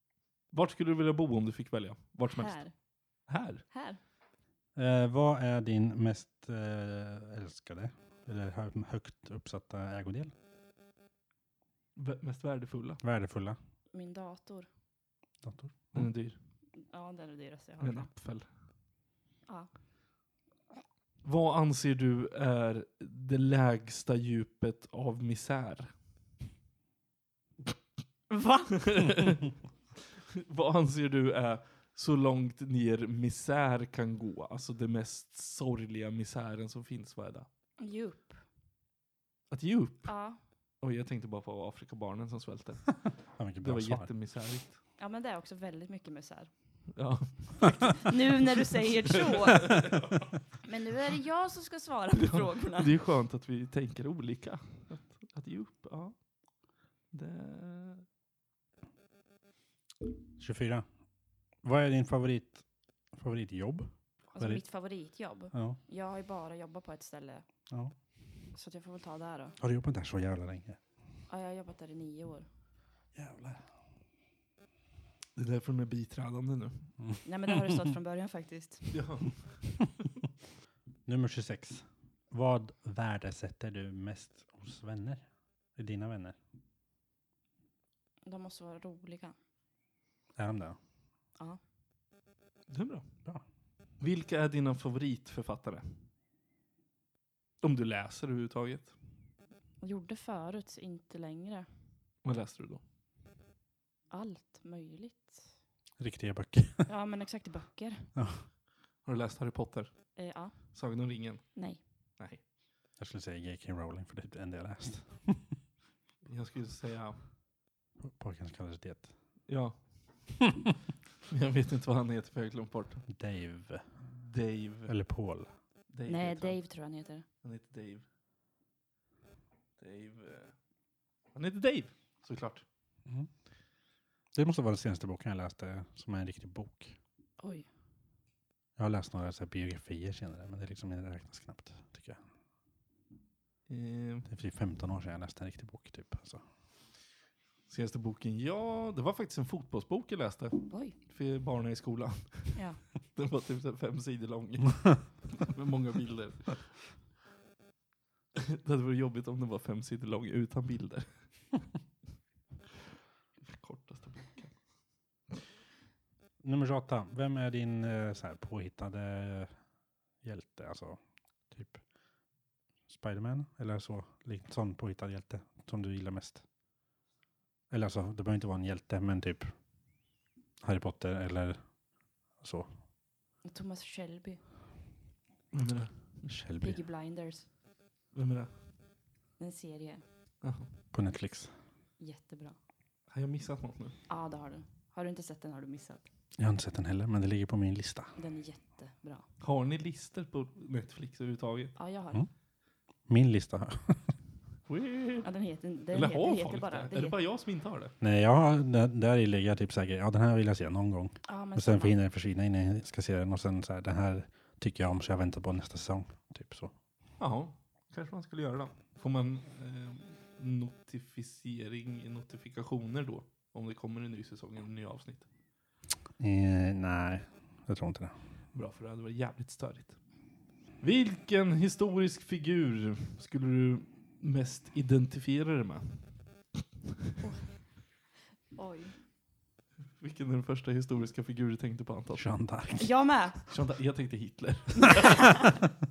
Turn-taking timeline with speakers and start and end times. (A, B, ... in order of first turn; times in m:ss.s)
0:00.5-0:03.7 A
0:02.3-0:02.8 B
0:03.7-0:04.0 B
0:04.8-0:10.3 C
0:12.0-0:13.0 A
0:13.0-0:13.6 C
0:13.9-0:14.7 B
0:15.4-0:16.1 C
0:15.9-0:16.4 A
0:16.8-0:18.1 B
0:17.8-0:18.5 A
0:21.2-0:25.9 A
0:28.3-0:28.9 B
0:28.8-0:29.5 A
0:30.3-0:37.5 A
0:37.8-0:38.4 B
0:39.5-0:40.2 A
0:40.1-0:40.4 B
0:40.8-0:44.8 A
0:43.4-0:44.1 C
0:45.0-0:46.5 B
0:47.0-0:48.4 A
0:47.6-0:49.7 B
0:49.3-0:50.2 A
0:50.6-0:52.9 B
0:52.2-0:56.2 A
0:57.1-0:58.1 A
1:00.4-1:00.8 C
1:01.6-1:04.6 C
1:04.3-1:07.5 B
1:05.5-1:05.8 C
1:07.7-1:07.9 C
1:08.5-1:09.6 B
1:09.6-1:10.8 C
1:11.3-1:12.5 B
1:13.1-1:13.6 C
1:15.4-1:16.9 A
1:17.2-1:19.0 B
1:18.9-1:19.9 A
1:21.1-1:25.2 C
1:25.8-1:26.4 C
1:28.2-1:29.4 B
1:30.4-1:30.8 C
1:32.7-1:33.1 A
1:34.0-1:36.0 A
1:37.6-1:39.0 A
1:39.8-1:41.7 B
1:42.2-1:42.8 A
1:44.1-1:45.5 B
1:46.0-1:46.9 C
1:46.9-1:48.1 B
1:48.2-1:48.5 C
1:49.0-1:51.6 A
1:50.2-1:50.7 B
1:51.6-1:51.8 B
1:53.0-1:55.4 C
1:56.2-1:57.2 A
1:58.0-1:59.1 C
1:59.5-2:00.4 A
2:01.3-2:03.1 A
2:03.1-2:03.9 C
2:04.0-2:04.9 A
2:04.9-2:05.5 C
2:05.9-2:06.6 A
2:06.1-2:07.3 B
2:07.4-2:08.0 A
2:09.8-2:10.5 A
2:11.3-2:12.6 A
2:14.3-2:17.0 C
2:17.4-2:17.7 B
2:18.8-2:22.2 C
2:23.7-2:24.3 A
2:24.3-2:26.4 C
2:27.7-2:36.7 A
2:30.7-2:31.0 B
2:32.5-2:32.8 B
2:38.4-2:41.6 A
2:43.4-2:44.6 A
2:46.4-2:49.6 C
2:50.2-2:51.0 C
2:51.5-2:51.8 C
2:52.9-2:56.4 C
2:57.7-2:59.5 C
3:00.6-3:01.6 C
3:02.4-3:02.7 C
3:03.4-3:04.4 B
3:05.5-3:06.3 A
3:06.3-3:06.8 C
3:06.6-3:07.5 B
3:08.1-3:08.5 A
3:09.4-3:10.0 B
3:10.4-3:10.7 A
3:10.9-3:11.5 C
3:12.0-3:12.6 B
3:13.1-3:14.0 A
3:14.1-3:16.0 B
3:16.4-3:18.1 C
3:18.2-3:19.3 B
3:19.4-3:21.8 A
3:21.8-3:22.2 B
3:23.1-3:24.1 C
3:24.7-3:25.3 A
3:25.2-3:27.2 B
3:25.9-3:27.9 A
3:28.0-3:36.7 C
3:31.2-3:32.0 B
3:37.2-3:45.3 A
3:46.2-3:48.1 C
3:48.5-3:50.0 A
3:50.8-3:56.1 A
3:57.2-3:58.0 B
3:58.5-3:59.0 B
4:00.0-4:02.3 A
4:02.2-4:02.9 C
4:02.8-4:03.4 B
4:03.5-4:05.5 A
4:04.9-4:05.5 B